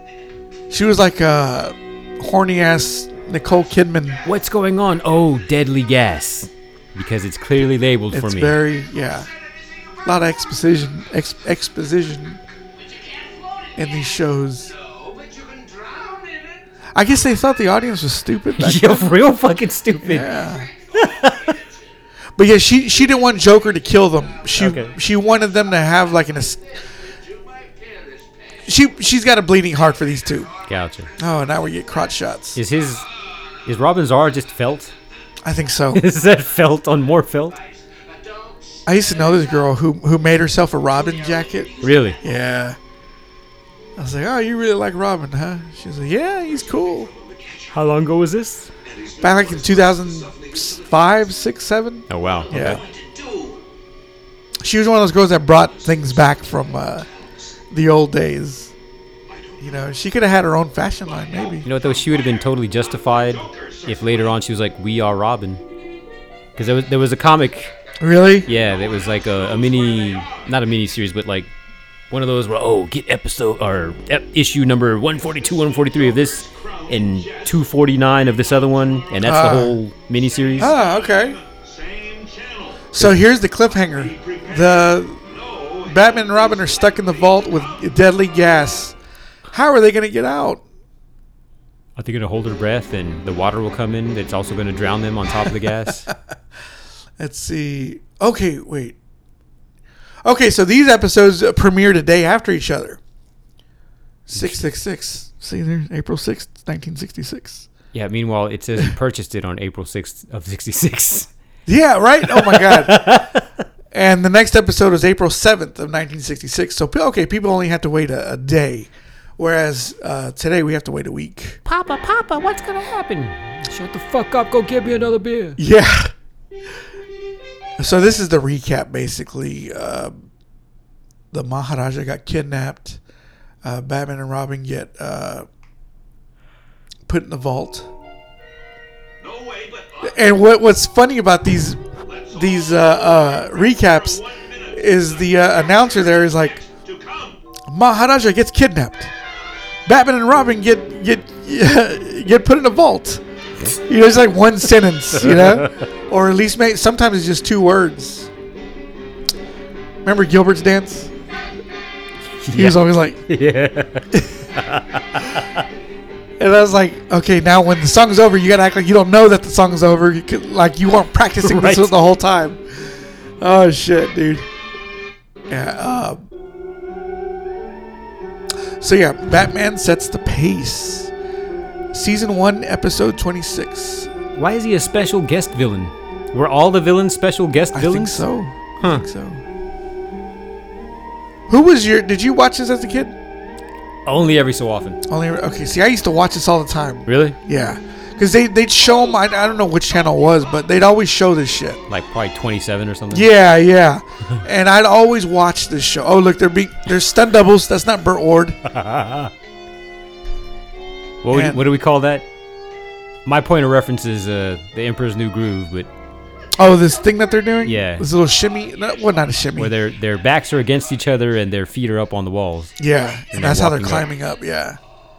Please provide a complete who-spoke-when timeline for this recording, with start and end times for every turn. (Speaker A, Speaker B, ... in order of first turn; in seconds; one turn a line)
Speaker A: 0.7-4.2
Speaker B: 4.2-8.6
Speaker A: 8.1-9.3
Speaker A: 10.1-12.4
Speaker C: 13.0-13.6
Speaker A: 13.8-14.7
Speaker C: 14.8-16.6
Speaker A: 16.9-19.1
Speaker B: 18.6-20.4
Speaker A: 20.0-20.7
Speaker C: 20.9-21.7
Speaker B: 20.9-21.6
Speaker A: 22.4-26.6
Speaker B: 24.6-24.9
Speaker C: 27.2-28.5
Speaker A: 28.6-30.5
Speaker B: 30.6-31.1
Speaker A: 31.2-32.6
Speaker B: 32.5-33.0
Speaker B: 33.6-34.9
Speaker A: 35.4-36.1
Speaker B: 35.9-37.6
Speaker C: 37.9-38.8
Speaker A: 38.9-42.8
Speaker C: 41.4-41.9
Speaker B: 41.8-42.2
Speaker A: 44.0-47.1
Speaker C: 46.3-47.9
Speaker B: 47.7-48.7
Speaker C: 48.8-51.3
Speaker A: 49.2-52.8
Speaker B: 52.1-52.8
Speaker C: 52.4-53.6
Speaker A: 54.6-57.1
Speaker C: 55.5-57.3
Speaker A: 57.7-58.7
Speaker C: 59.3-59.9
Speaker A: 59.6-61.7
Speaker C: 61.2-64.4
Speaker B: 61.6-65.6
Speaker B: 66.6-67.7
Speaker A: 68.0-68.5
Speaker B: 68.5-71.5
Speaker C: 68.5-70.5
Speaker B: 72.1-80.8
Speaker C: 75.4-77.6
Speaker A: 79.2-79.8
Speaker C: 80.3-82.9
Speaker A: 80.6-81.4
Speaker A: 82.9-85.2
Speaker C: 83.8-87.9
Speaker A: 85.8-89.0
Speaker A: 89.5-90.6
Speaker B: 92.0-96.1
Speaker A: 97.2-99.0
Speaker A: 100.2-103.0
Speaker A: 104.3-107.7
Speaker B: 107.9-111.3
Speaker A: 111.7-113.2
Speaker B: 112.3-113.5
Speaker A: 113.9-121.6
Speaker B: 121.7-125.6
Speaker A: 125.6-126.1
Speaker A: 127.8-130.2
Speaker A: 131.3-133.0
Speaker A: 133.6-135.5
Speaker A: 137.1-137.9
Speaker C: 139.2-140.3
Speaker A: 140.0-141.8
Speaker C: 142.0-147.4
Speaker A: 142.3-146.6
Speaker A: 147.7-149.1
Speaker A: 149.9-153.2
Speaker A: 153.8-158.3
Speaker B: 155.1-155.8
Speaker A: 160.0-161.1
Speaker B: 162.4-165.6
Speaker A: 162.5-163.2
Speaker A: 166.4-172.6
Speaker B: 171.4-171.9
Speaker A: 173.4-174.4
Speaker A: 175.5-176.2
Speaker A: 178.8-181.1
Speaker A: 181.9-184.1
Speaker B: 184.3-188.2
Speaker A: 187.7-189.4
Speaker B: 188.8-189.1
Speaker A: 191.5-193.2
Speaker B: 194.1-195.0
Speaker A: 195.1-201.8
Speaker B: 197.1-197.4
Speaker B: 201.9-203.3
Speaker A: 203.1-208.6
Speaker B: 208.7-209.3
Speaker B: 211.2-212.3
Speaker A: 211.3-211.6
Speaker B: 213.2-215.9
Speaker A: 216.6-219.8
Speaker B: 217.6-218.1
Speaker B: 219.6-222.7
Speaker A: 222.8-224.8
Speaker B: 223.3-224.1